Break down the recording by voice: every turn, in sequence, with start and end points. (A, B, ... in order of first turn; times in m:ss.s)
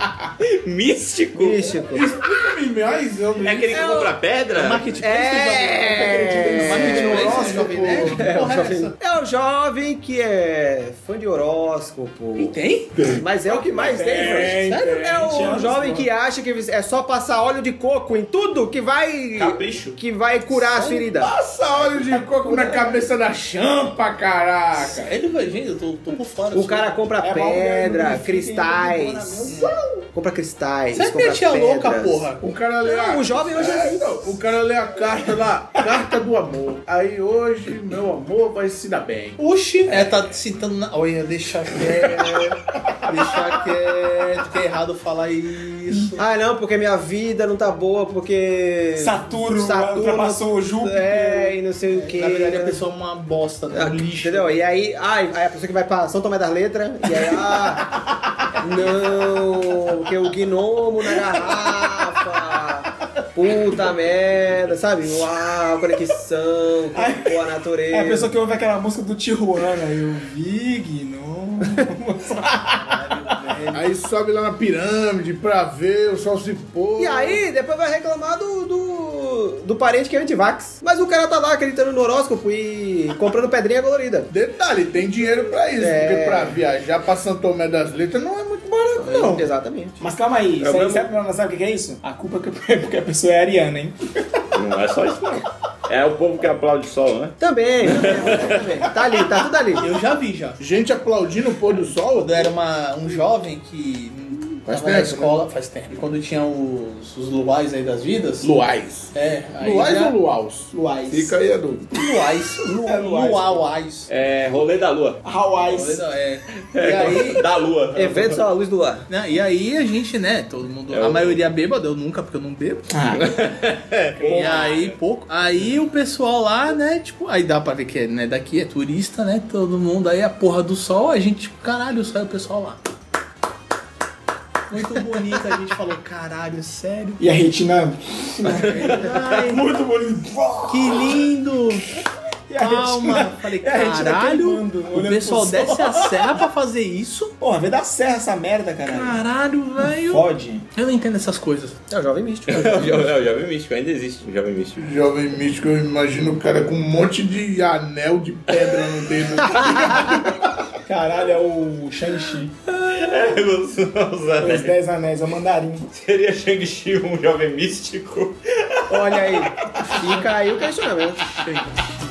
0:00.4-0:01.8 A
0:01.3-0:02.1 B
0:01.9-0:04.0 C
0:03.4-0:04.9 A
0:04.5-0:08.9 D
0:05.0-0:12.5 B
0:06.0-0:08.2 E
0:07.0-0:08.1 C
0:12.4-0:12.9 D
0:13.1-0:21.3 B
0:13.4-0:16.1 E
0:19.4-0:20.0 A
0:20.5-0:21.0 D
0:21.1-0:25.1 C
0:21.8-0:22.7 D
0:22.2-0:22.8 E
0:24.7-0:26.9 D
0:26.5-0:29.4 B
0:27.2-0:29.8 E
0:29.5-0:29.9 C
0:30.1-0:32.3 B
0:30.9-0:32.4 D
0:32.4-0:39.4 C
0:32.8-0:34.4 B
0:39.4-0:46.2 D
0:46.2-0:52.8 B
0:48.9-0:51.6 E
0:51.9-0:54.6 D
0:53.7-0:57.8 B
0:57.4-0:59.6 E
0:58.6-1:08.3 B
1:01.3-1:01.7 E
1:06.9-1:12.8 E
1:12.7-1:13.9 D
1:13.7-1:17.4 C
1:17.0-1:24.3 B
1:24.3-1:29.1 C
1:25.8-1:26.6 B
1:29.0-1:30.0 B
1:29.0-1:34.4 E
1:30.6-1:31.1 A
1:34.5-1:38.9 A
1:37.4-1:39.9 B
1:39.8-1:40.6 D
1:40.6-1:42.5 C
1:42.1-1:48.5 D
1:44.6-1:45.4 C
1:48.4-1:51.9 C
1:49.1-1:50.1 D
1:50.7-1:51.4 E
1:51.9-1:54.1 D
1:52.6-1:53.6 E
1:54.1-1:55.2 A
1:55.2-1:56.0 E
1:55.6-1:57.4 D
1:56.7-1:58.4 A
1:58.0-1:59.0 B
1:59.1-2:02.8 D
2:00.9-2:01.4 A
2:02.9-2:03.4 E
2:03.1-2:05.0 A
2:04.2-2:12.8 D
2:14.7-2:17.2 D
2:17.2-2:21.2 E
2:18.5-2:19.6 A
2:18.6-2:19.6 D
2:20.7-2:21.9 D
2:22.5-2:26.4 E
2:22.6-2:27.3 D
2:27.4-2:29.2 E
2:28.8-2:31.8 D
2:29.8-2:30.6 E
2:31.9-2:33.1 B
2:32.5-2:34.8 A
2:34.8-2:40.7 C
2:40.8-2:42.5 E
2:42.7-2:44.7 A
2:44.4-2:45.9 E
2:45.9-2:49.5 A
2:48.9-2:51.3 B
2:51.4-2:51.9 D